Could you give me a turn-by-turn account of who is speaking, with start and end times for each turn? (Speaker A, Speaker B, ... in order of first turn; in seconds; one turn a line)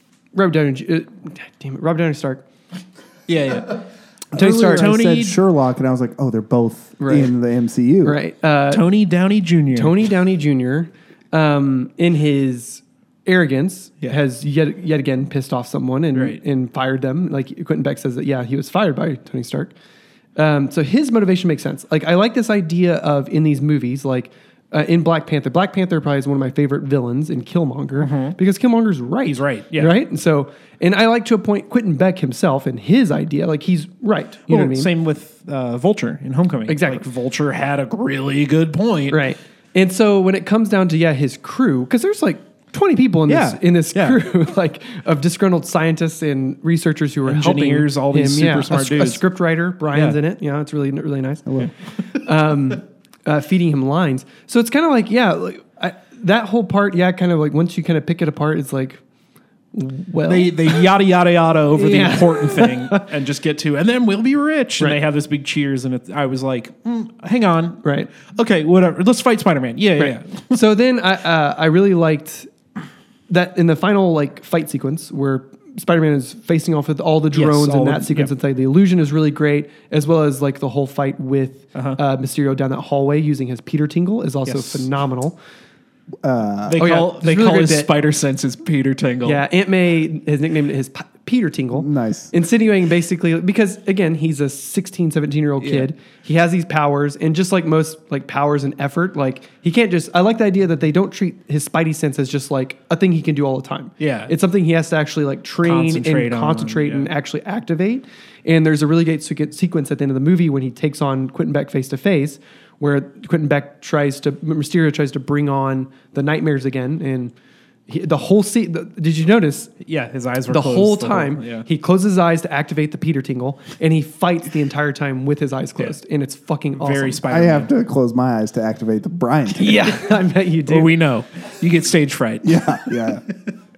Speaker A: 0.3-2.4
Speaker B: 3.3-3.8
Speaker C: 4.3-8.2
Speaker A: 4.3-4.9
Speaker B: 4.4-5.4
Speaker A: 7.0-7.3
Speaker A: 8.0-8.9
Speaker B: 8.7-10.1
Speaker A: 9.7-19.7
Speaker B: 16.1-16.4
Speaker A: 20.4-34.9
Speaker B: 28.0-28.4
Speaker B: 29.3-30.0
Speaker B: 34.5-39.2
Speaker A: 36.7-37.1
Speaker A: 39.1-51.5
Speaker B: 43.3-44.2
Speaker B: 47.3-49.2
Speaker A: 52.1-59.0
Speaker A: 59.7-60.9
Speaker B: 60.2-70.6
Speaker A: 61.7-63.1
Speaker A: 67.8-68.1
Speaker A: 70.0-72.5
Speaker A: 73.3-85.4
Speaker B: 77.3-78.3
Speaker B: 84.5-84.9
Speaker C: 86.2-86.9
Speaker B: 86.7-89.4
Speaker A: 86.8-87.9
Speaker A: 89.2-117.3
Speaker C: 91.7-92.3
Speaker B: 95.6-95.9
Speaker B: 104.0-104.3
Speaker B: 105.6-107.1
Speaker A: 117.9-119.8
Speaker B: 119.8-121.7
Speaker A: 120.5-127.2
Speaker B: 126.8-127.7
Speaker C: 127.3-129.9
Speaker A: 129.6-130.9
Speaker B: 130.7-133.2
Speaker C: 132.4-133.2